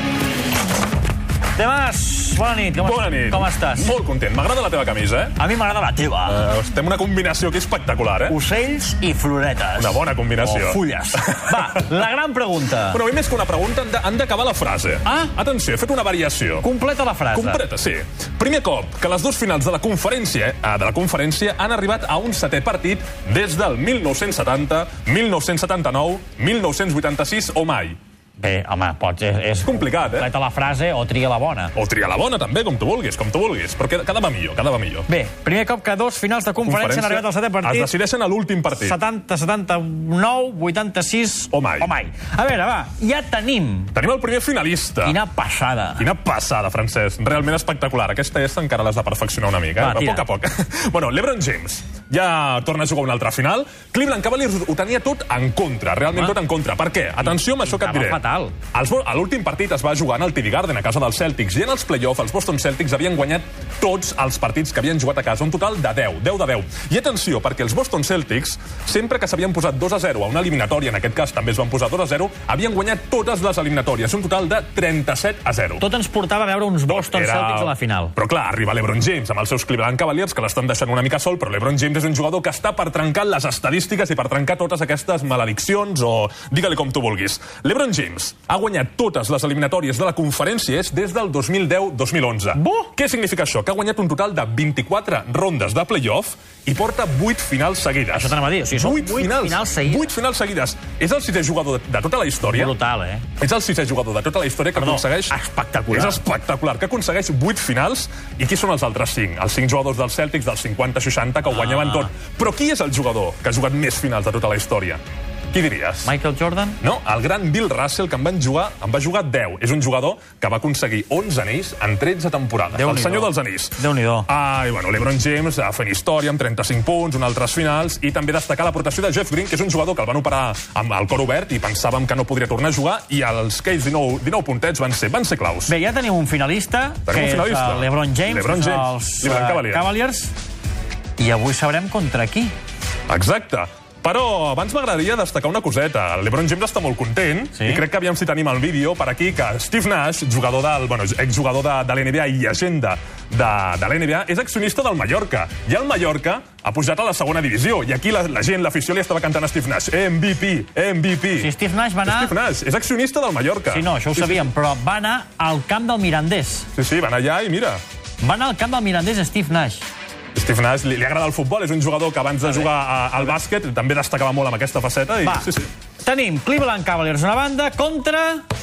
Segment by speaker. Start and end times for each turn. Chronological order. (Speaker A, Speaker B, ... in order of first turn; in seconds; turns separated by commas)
Speaker A: 1.6-3.9, Speaker B: 2.8-5.3, Speaker A: 5.4-6.4, Speaker B: 6.2-8.4, Speaker A: 8.3-13.0, Speaker B: 9.8-11.8, Speaker B: 12.9-16.7, Speaker A: 15.1-15.3, Speaker A: 16.6-17.6, Speaker B: 17.3-28.0, Speaker A: 28.4-31.7, Speaker B: 29.6-30.3, Speaker B: 31.7-35.1, Speaker A: 35.1-37.9, Speaker B: 36.6-39.0, Speaker A: 38.7-43.9, Speaker B: 41.5-41.9, Speaker B: 43.9-45.2, Speaker A: 45.0-46.0, Speaker B: 46.0-58.2, Speaker A: 49.8-50.2, Speaker A: 57.2-58.5, Speaker B: 58.7-75.8, Speaker A: 75.8-78.1, Speaker B: 76.9-102.7, Speaker A: 92.5-92.9, Speaker A: 98.1-100.1, Speaker A: 102.4-103.2, Speaker B: 103.4-105.4, Speaker A: 104.8-106.2, Speaker B: 105.9-115.0, Speaker A: 111.5-112.1, Speaker B: 115.5-116.1, Speaker A: 116.0-116.8, Speaker B: 116.8-135.7, Speaker A: 122.7-124.3, Speaker A: 135.7-140.3, Speaker B: 137.1-139.9, Speaker A: 141.2-142.5, Speaker B: 143.1-161.5, Speaker A: 147.6-147.8, Speaker A: 161.3-162.3, Speaker B: 162.0-164.5, Speaker A: 163.7-166.7, Speaker B: 166.8-167.8, Speaker A: 168.2-169.8, Speaker B: 170.3-175.7, Speaker A: 172.4-172.7, Speaker A: 175.2-175.5, Speaker A: 176.0-178.4